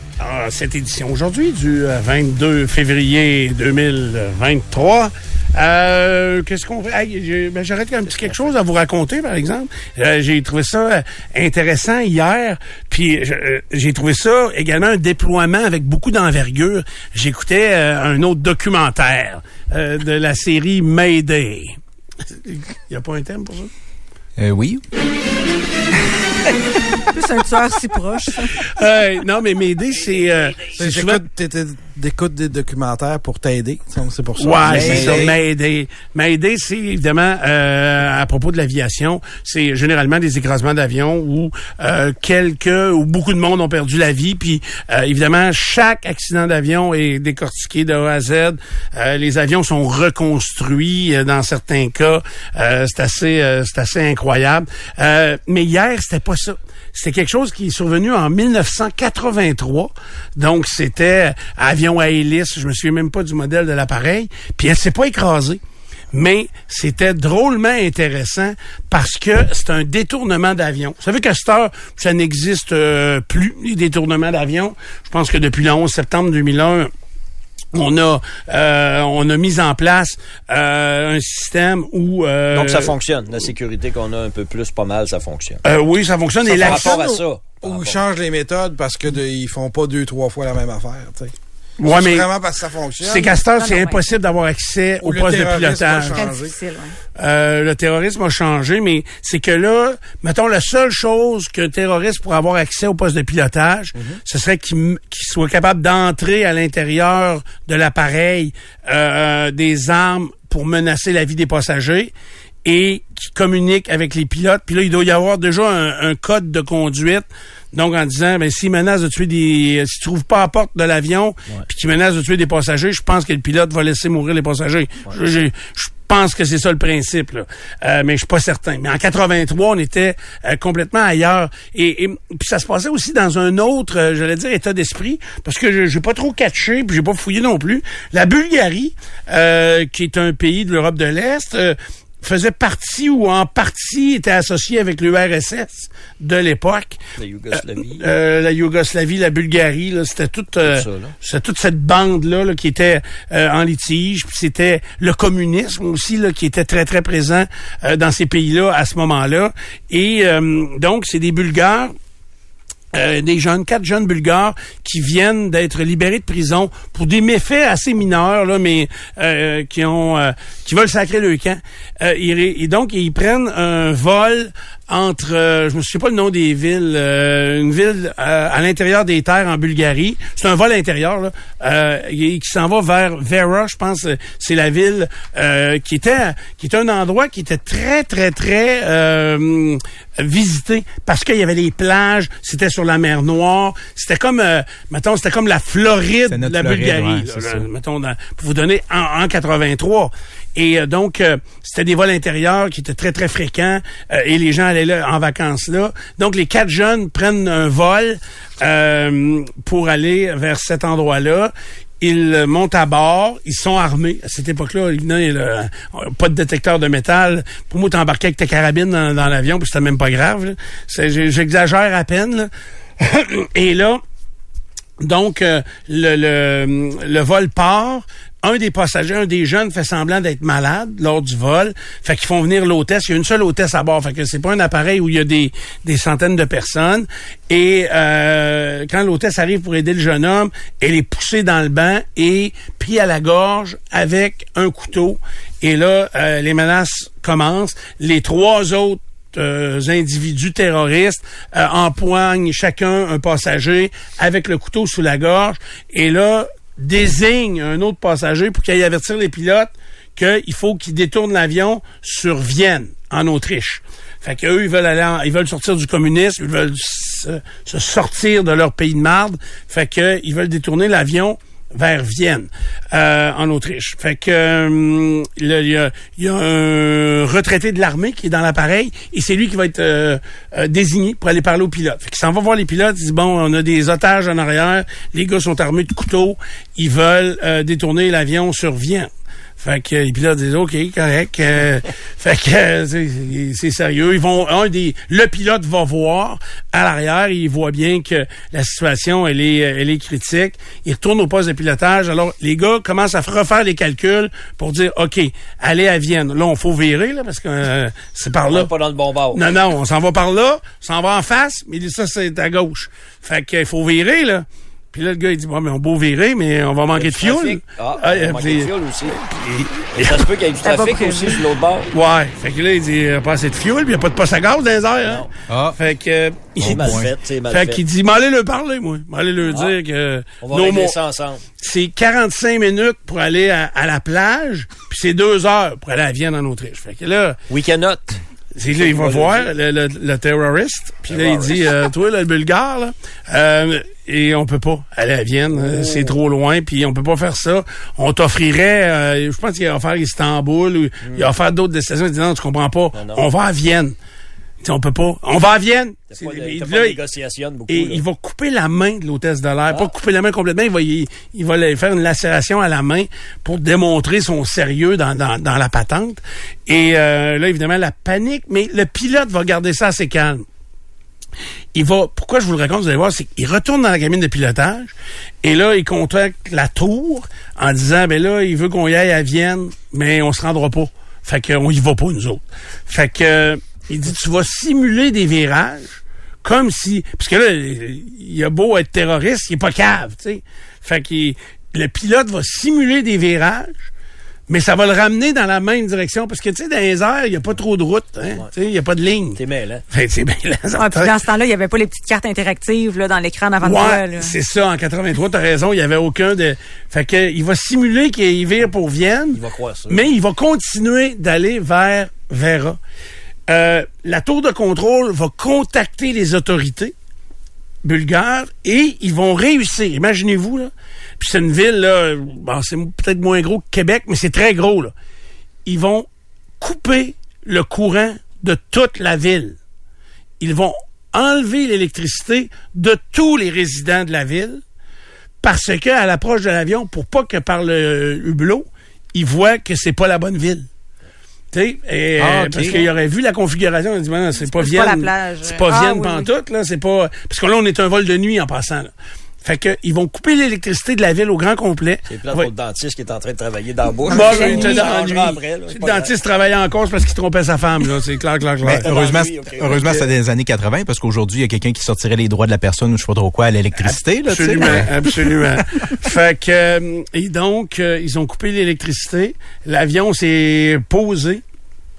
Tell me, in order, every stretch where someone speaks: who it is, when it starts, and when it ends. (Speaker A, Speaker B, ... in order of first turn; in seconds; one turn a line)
Speaker A: 0.2-21.8
Speaker A: 22.3-23.7
Speaker B: 24.4-24.8
Speaker C: 27.1-28.6
Speaker A: 28.8-31.2
Speaker D: 30.7-35.3
Speaker A: 34.4-65.6
Speaker B: 34.6-35.4
Speaker A: 66.1-76.9
Speaker A: 77.7-82.9
Speaker E: 82.5-85.6
Speaker A: 85.6-87.0
Speaker E: 86.5-88.0
Speaker C: 86.6-87.2
Speaker D: 87.6-91.3
Speaker A: 91.8-92.3
Speaker D: 91.9-93.4
Speaker A: 93.0-96.3
Speaker C: 93.4-94.0
Speaker D: 95.0-96.5
Speaker C: 96.1-97.0
Speaker A: 97.2-112.1
Speaker D: 103.9-104.2
Speaker A: 112.6-147.0
Speaker E: 147.2-148.0
Speaker A: 147.5-161.9
Speaker E: 150.6-151.1
Speaker A: 162.9-224.0
Speaker B: 196.3-197.7
Speaker A: 225.0-289.1
Speaker A: 289.6-308.7
Speaker E: 308.5-309.4
Speaker A: 309.3-320.1
Speaker E: 316.9-319.2
Speaker E: 319.9-321.9
Speaker C: 320.6-321.4
Speaker A: 321.9-331.0
Speaker E: 325.0-325.3
Speaker B: 325.5-325.8
Speaker B: 326.6-327.1
Speaker E: 326.6-327.8
Speaker E: 329.5-329.8
Speaker E: 330.4-331.4
Speaker A: 331.6-337.4
Speaker E: 337.5-338.2
Speaker A: 338.5-353.9
Speaker E: 338.7-339.5
Speaker E: 341.0-341.7
Speaker E: 345.5-346.1
Speaker E: 351.0-351.3
Speaker E: 352.9-353.3
Speaker A: 354.6-357.0
Speaker E: 356.1-358.0
Speaker A: 357.7-370.4
Speaker A: 371.7-393.9
Speaker A: 394.5-401.1
Speaker E: 399.4-399.8
Speaker C: 400.7-404.3
Speaker A: 403.6-412.8
Speaker E: 409.3-410.1
Speaker A: 413.5-416.9
Speaker A: 417.8-424.9
Speaker A: 425.6-426.1
Speaker A: 426.6-429.6
Speaker A: 430.4-434.6
Speaker A: 435.4-440.6
Speaker A: 441.5-448.9
Speaker B: 442.2-442.8
Speaker C: 444.4-446.3
Speaker A: 449.4-452.5
Speaker E: 452.1-456.1
Speaker C: 454.1-454.9
Speaker A: 454.1-458.9
Speaker B: 458.6-465.0
Speaker E: 458.7-460.0
Speaker A: 463.8-471.4